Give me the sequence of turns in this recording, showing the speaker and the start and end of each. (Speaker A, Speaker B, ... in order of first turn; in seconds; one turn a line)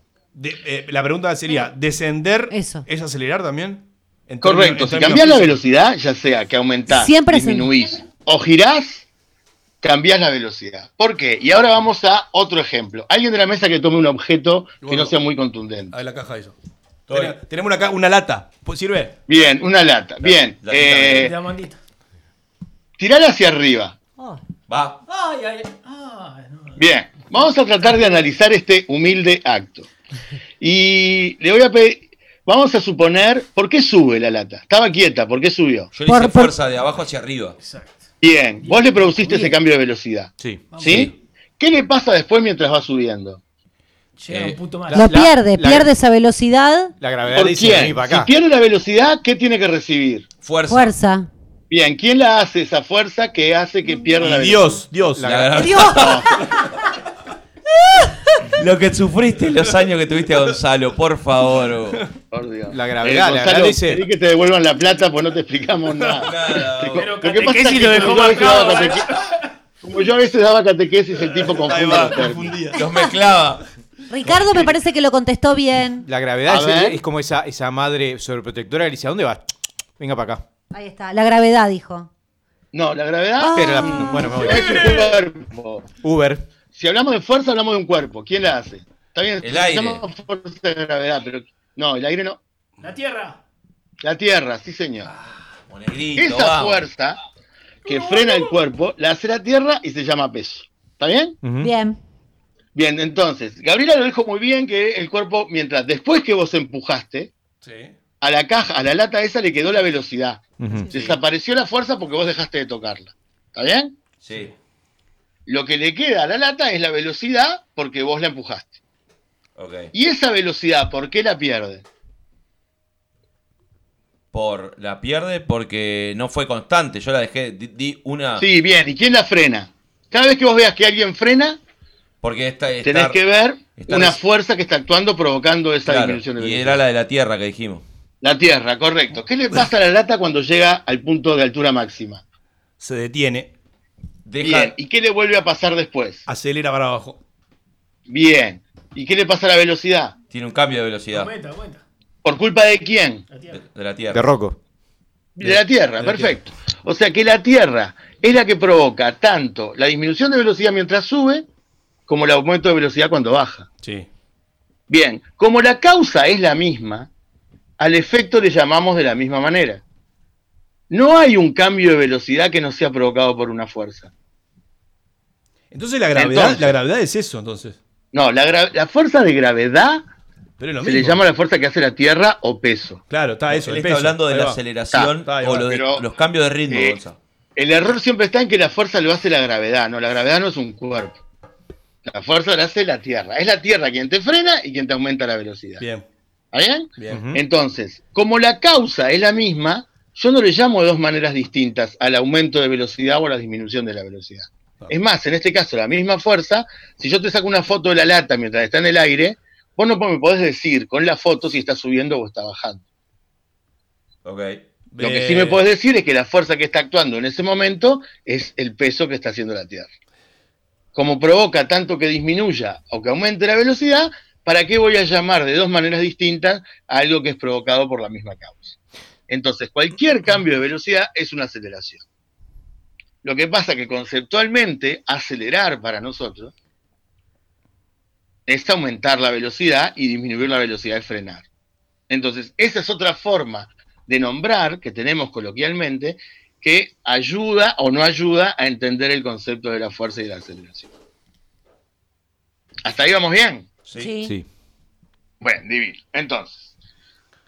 Speaker A: 0.3-5.6
Speaker B: 2.5-2.9
Speaker C: 4.4-9.1
Speaker B: 6.9-7.7
Speaker C: 9.8-16.0
Speaker A: 14.8-15.2
Speaker A: 15.9-16.6
Speaker D: 17.1-17.4
Speaker A: 17.1-19.2
Speaker C: 19.3-21.3
Speaker D: 20.2-21.3
Speaker E: 21.1-21.8
Speaker C: 23.0-24.0
Speaker D: 24.7-25.0
Speaker E: 25.1-26.8
Speaker C: 26.8-29.9
Speaker C: 30.6-35.9
Speaker D: 35.9-37.6
Speaker B: 36.1-36.5
Speaker E: 37.6-38.0
Speaker C: 38.2-43.4
Speaker E: 38.6-39.6
Speaker F: 40.4-41.1
Speaker E: 40.7-41.1
Speaker D: 40.8-41.1
Speaker E: 44.2-45.1
Speaker D: 44.3-44.6
Speaker F: 44.9-45.9
Speaker B: 44.9-46.9
Speaker F: 47.0-48.3
Speaker C: 47.3-50.3
Speaker D: 50.4-51.0
Speaker B: 50.7-51.3
Speaker C: 51.7-54.9
Speaker A: 54.2-55.3
Speaker F: 54.3-55.9
Speaker D: 55.2-56.2
Speaker B: 55.6-56.3
Speaker C: 56.0-56.3
Speaker D: 58.6-62.1
Speaker C: 62.3-69.1
Speaker F: 62.7-64.1
Speaker D: 66.2-67.2
Speaker E: 66.9-69.3
Speaker C: 69.8-72.6
Speaker A: 71.3-72.8
Speaker D: 72.7-73.6
Speaker B: 74.1-76.0
Speaker F: 76.0-79.4
Speaker C: 76.5-77.0
Speaker F: 80.0-80.4
Speaker B: 80.7-82.1
Speaker C: 82.7-85.9
Speaker B: 83.4-84.5
Speaker F: 83.5-84.9
Speaker E: 84.5-85.2
Speaker F: 86.0-86.5
Speaker C: 86.7-92.4
Speaker D: 89.4-90.0
Speaker E: 92.8-93.4
Speaker C: 94.0-95.1
Speaker D: 95.1-96.9
Speaker C: 96.2-97.2
Speaker C: 97.8-101.4
Speaker F: 101.4-101.7
Speaker B: 101.6-102.0
Speaker C: 102.8-107.3
Speaker A: 107.6-107.9
Speaker C: 108.2-114.0
Speaker F: 110.6-111.0
Speaker D: 114.2-114.5
Speaker C: 115.5-118.8
Speaker D: 119.6-119.9
Speaker C: 119.9-121.8
Speaker D: 124.3-128.5
Speaker C: 128.4-131.6
Speaker D: 132.2-133.2
Speaker C: 132.8-136.8
Speaker D: 133.7-134.2
Speaker D: 135.9-137.8
Speaker C: 138.2-142.2
Speaker A: 142.8-143.5
Speaker D: 144.2-144.8
Speaker C: 144.4-146.2
Speaker A: 146.3-147.2
Speaker C: 148.1-150.2
Speaker D: 150.3-151.3
Speaker E: 151.1-151.8
Speaker C: 152.2-153.2
Speaker E: 153.3-153.6
Speaker D: 153.5-154.3
Speaker F: 154.1-154.6
Speaker C: 155.4-161.5
Speaker A: 155.4-156.4
Speaker C: 162.1-163.7
Speaker A: 163.8-164.1
Speaker C: 164.9-167.1
Speaker C: 167.8-169.8
Speaker C: 170.9-174.1
Speaker A: 175.7-177.8
Speaker C: 176.2-176.8
Speaker C: 178.1-180.1
Speaker A: 180.6-181.2
Speaker C: 180.8-183.0
Speaker A: 183.1-184.6
Speaker D: 183.5-187.2
Speaker C: 184.9-186.1
Speaker A: 185.2-185.7
Speaker C: 186.7-187.0
Speaker C: 187.6-191.2
Speaker C: 192.1-195.9
Speaker A: 195.8-196.1
Speaker C: 196.5-212.8
Speaker A: 197.0-197.3
Speaker F: 197.1-197.4
Speaker D: 214.2-214.6
Speaker A: 214.9-215.6
Speaker C: 215.0-219.9
Speaker C: 220.9-228.8
Speaker C: 229.3-232.0
Speaker C: 233.2-236.5
Speaker C: 238.5-241.5
Speaker C: 242.1-250.9
Speaker C: 252.8-253.7
Speaker B: 253.9-254.4
Speaker C: 255.4-256.7